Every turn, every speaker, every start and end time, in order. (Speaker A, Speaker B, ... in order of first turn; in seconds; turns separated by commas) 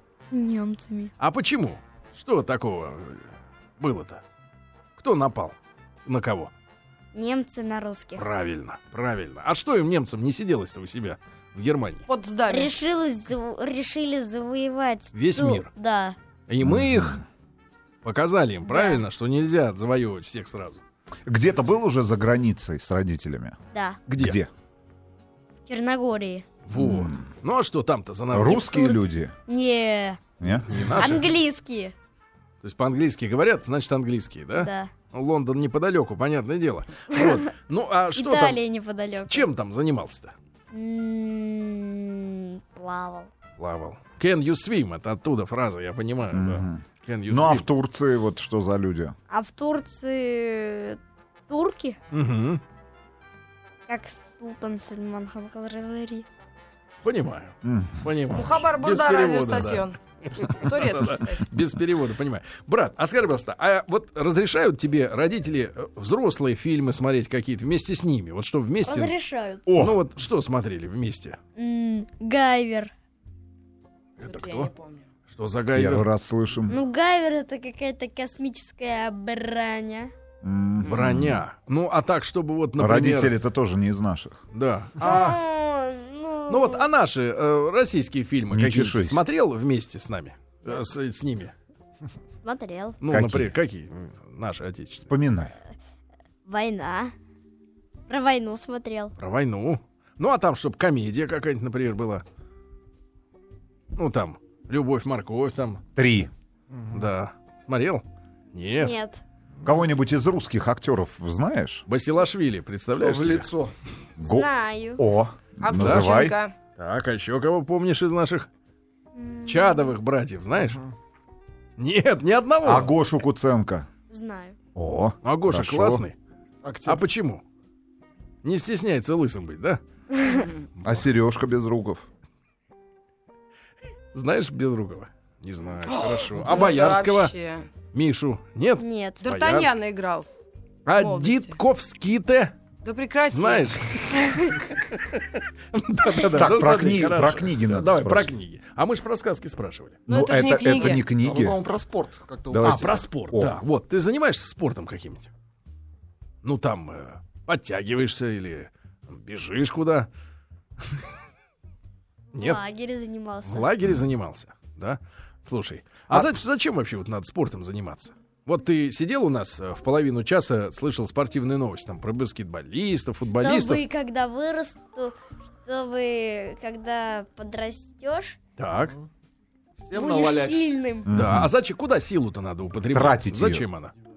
Speaker A: 0.3-1.1, Speaker B: 1.2-4.2, Speaker B: 5.0-6.5, Speaker A: 7.1-8.2, Speaker B: 8.2-12.1, Speaker C: 12.1-12.7, Speaker A: 12.5-16.2, Speaker B: 15.1-15.7, Speaker B: 16.5-17.2, Speaker D: 16.6-17.2, Speaker B: 18.0-20.8, Speaker A: 18.7-19.0, Speaker D: 21.3-23.6, Speaker A: 23.7-24.0, Speaker B: 24.1-24.4, Speaker D: 24.2-24.5, Speaker A: 25.7-26.5, Speaker B: 26.6-28.7, Speaker D: 26.7-27.2, Speaker D: 28.3-29.3, Speaker A: 28.5-30.2, Speaker D: 30.4-31.1, Speaker B: 30.6-31.3, Speaker A: 31.0-31.9, Speaker B: 32.6-38.6, Speaker A: 34.5-34.9, Speaker A: 38.1-39.5, Speaker B: 39.3-40.3, Speaker A: 40.7-43.3, Speaker B: 43.6-47.7, Speaker D: 46.3-49.1, Speaker A: 49.3-52.0, Speaker B: 52.1-52.6, Speaker A: 53.9-56.3, Speaker B: 57.0-69.1, Speaker D: 57.6-58.1, Speaker C: 58.3-61.5, Speaker A: 68.8-69.7, Speaker D: 69.7-70.0, Speaker B: 69.8-71.4, Speaker A: 71.5-72.9, Speaker B: 74.2-74.7, Speaker C: 74.2-75.1, Speaker B: 75.3-76.1, Speaker D: 75.7-76.8, Speaker A: 76.7-80.1, Speaker D: 80.4-81.4, Speaker B: 80.8-83.3, Speaker D: 82.8-84.4, Speaker B: 84.5-85.4, Speaker A: 85.0-86.8, Speaker B: 86.5-91.5, Speaker D: 88.5-89.2, Speaker A: 92.4-93.0, Speaker B: 93.0-95.1, Speaker D: 93.1-93.5, Speaker D: 95.0-95.5, Speaker A: 96.5-97.1, Speaker A: 98.1-99.1, Speaker B: 99.2-102.2, Speaker B: 103.9-105.8, Speaker D: 106.0-106.3, Speaker E: 106.7-107.0, Speaker B: 106.9-109.0, Speaker A: 108.8-109.2, Speaker D: 109.6-111.8, Speaker B: 111.9-113.5, Speaker E: 113.0-113.7, Speaker D: 114.2-116.4, Speaker A: 114.2-115.0, Speaker C: 115.6-116.5, Speaker B: 115.8-116.1, Speaker B: 116.8-118.5, Speaker A: 119.1-119.9, Speaker B: 119.5-120.8, Speaker B: 121.8-122.9, Speaker D: 122.6-123.9, Speaker A: 124.1-124.5, Speaker D: 124.7-126.0, Speaker B: 125.2-126.1, Speaker E: 126.6-127.0, Speaker B: 126.8-127.4, Speaker B: 128.4-129.8, Speaker A: 130.2-130.5, Speaker D: 130.8-132.0, Speaker B: 134.1-137.3, Speaker C: 135.9-137.7, Speaker B: 137.9-139.7, Speaker A: 138.8-139.2, Speaker C: 139.2-140.3, Speaker B: 140.8-142.5, Speaker C: 141.0-141.6, Speaker C: 142.8-143.8, Speaker B: 143.3-144.1, Speaker B: 145.7-150.0, Speaker D: 146.3-148.3, Speaker C: 150.1-151.0, Speaker D: 150.1-151.6, Speaker E: 151.0-153.0, Speaker D: 152.5-153.6, Speaker B: 152.6-155.3, Speaker B: 156.4-160.1, Speaker A: 162.3-163.7, Speaker B: 162.3-162.6, Speaker B: 163.4-173.8, Speaker A: 173.4-178.4, Speaker B: 178.6-178.9, Speaker E: 179.8-180.7, Speaker A: 179.9-181.1, Speaker D: 181.0-181.5, Speaker B: 181.1-183.9, Speaker D: 182.9-183.6